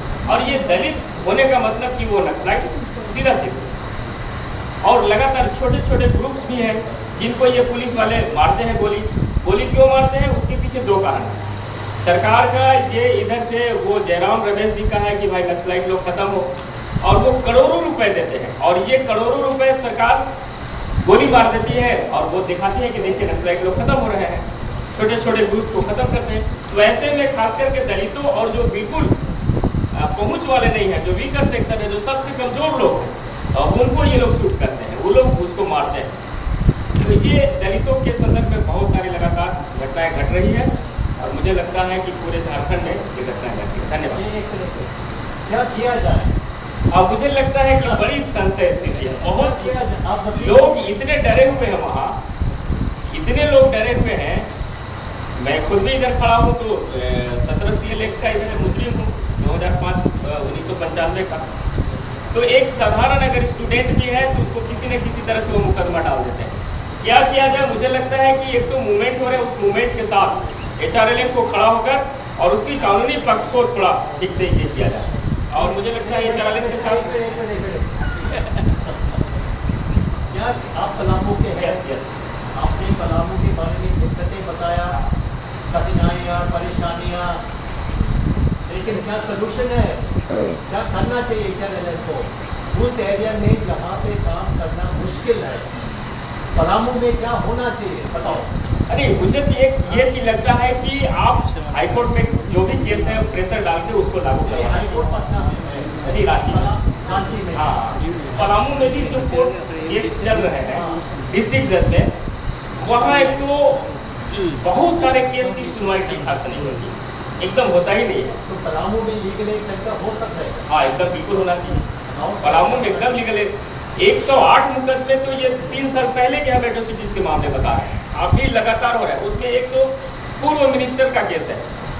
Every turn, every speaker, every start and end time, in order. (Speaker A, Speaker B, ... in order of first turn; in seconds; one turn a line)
Speaker A: 0.3-3.6
Speaker A: 4.8-11.4
Speaker A: 12.1-16.5
Speaker A: 17.0-20.2
Speaker A: 21.0-24.4
Speaker A: 25.0-29.1
Speaker A: 29.9-36.1
Speaker A: 37.0-44.2
Speaker B: 44.1-44.9
Speaker B: 45.5-46.4
Speaker A: 46.9-49.8
Speaker B: 47.8-48.0
Speaker B: 49.2-50.8
Speaker A: 50.3-52.2
Speaker A: 53.1-54.5
Speaker A: 55.4-61.4
Speaker A: 62.3-77.2
Speaker B: 75.6-78.4
Speaker B: 80.3-85.0
Speaker B: 85.7-87.4
Speaker B: 88.7-90.0
Speaker B: 90.7-95.7
Speaker B: 96.5-98.5
Speaker A: 98.9-105.0
Speaker B: 104.5-107.8
Speaker A: 106.0-106.7
Speaker A: 107.5-112.1
Speaker B: 110.7-111.0
Speaker A: 112.8-118.3
Speaker B: 118.5-120.6
Speaker A: 120.7-121.8
Speaker B: 122.1-123.2
Speaker A: 122.4-131.6